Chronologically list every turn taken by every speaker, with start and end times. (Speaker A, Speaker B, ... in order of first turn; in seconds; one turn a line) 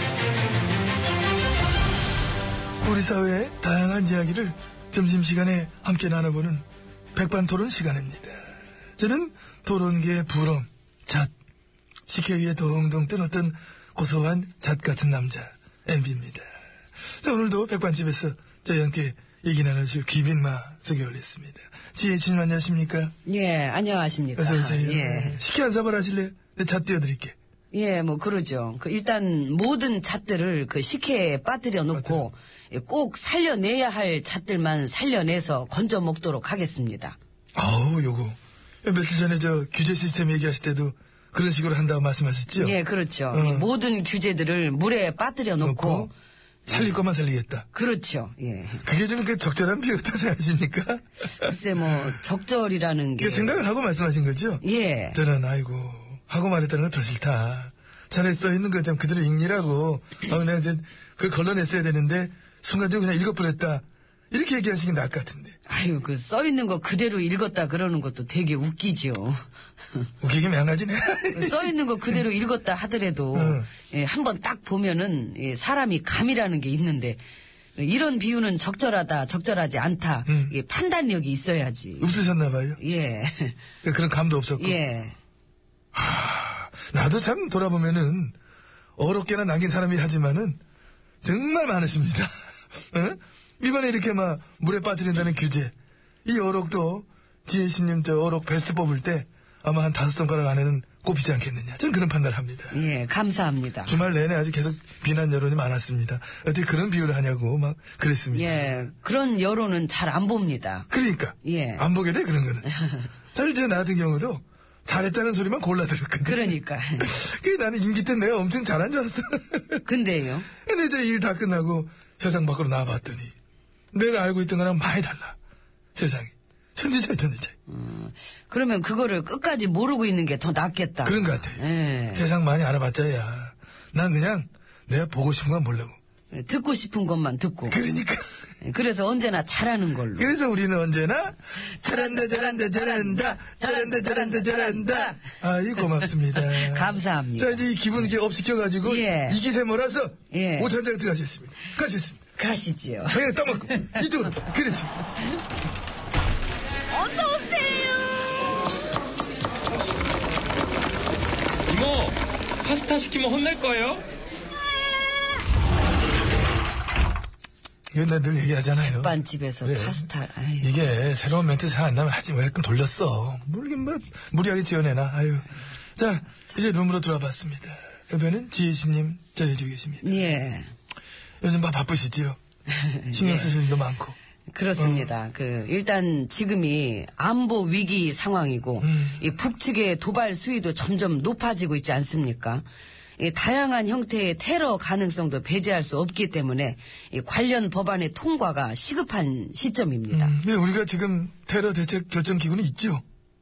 Speaker A: 2.8-8.4
Speaker A: 9.0-11.3
Speaker A: 12.1-16.5
Speaker A: 17.2-23.1
Speaker B: 23.2-25.4
Speaker A: 24.4-27.4
Speaker B: 27.7-37.2
Speaker A: 31.9-32.2
Speaker A: 37.5-42.8
Speaker B: 42.5-46.1
Speaker A: 43.3-43.7
Speaker A: 45.6-46.1
Speaker B: 46.7-46.9
Speaker A: 46.7-47.7
Speaker B: 47.7-48.8
Speaker A: 48.8-52.2
Speaker B: 51.4-53.6
Speaker A: 53.2-65.5
Speaker B: 54.6-55.2
Speaker B: 65.7-70.1
Speaker A: 70.2-72.2
Speaker B: 71.3-77.2
Speaker A: 73.3-73.7
Speaker B: 77.8-82.2
Speaker A: 80.3-80.5
Speaker A: 82.0-82.8
Speaker B: 82.8-83.6
Speaker A: 83.8-84.8
Speaker B: 84.6-85.1
Speaker A: 85.9-88.3
Speaker A: 89.0-90.6
Speaker A: 91.2-92.3
Speaker A: 92.9-95.7
Speaker A: 96.2-102.8
Speaker B: 102.7-104.0
Speaker A: 103.8-108.7
Speaker B: 108.3-110.9
Speaker A: 110.9-112.7
Speaker B: 111.4-111.9
Speaker B: 112.7-113.1
Speaker A: 113.3-119.8
Speaker B: 116.2-117.2
Speaker B: 119.8-120.5
Speaker A: 120.6-123.3
Speaker A: 123.9-125.4
Speaker A: 125.9-127.5
Speaker B: 127.7-132.2
Speaker A: 131.0-135.9
Speaker B: 136.3-137.8
Speaker A: 137.7-138.2
Speaker B: 138.6-140.3
Speaker A: 140.1-152.2
Speaker B: 141.6-145.2
Speaker B: 145.8-148.1
Speaker B: 148.8-149.4
Speaker B: 150.3-150.7
Speaker B: 152.4-154.0
Speaker A: 153.1-155.0
Speaker B: 156.9-158.3
Speaker C: 161.7-164.1
Speaker A: 167.9-170.0
Speaker B: 168.8-170.7
Speaker A: 170.6-180.2
Speaker B: 180.0-180.7
Speaker A: 181.4-182.4
Speaker B: 182.7-183.6
Speaker A: 183.1-184.2
Speaker B: 184.5-192.6
Speaker A: 184.8-185.1
Speaker A: 188.8-189.2
Speaker B: 193.2-200.3
Speaker A: 200.1-203.0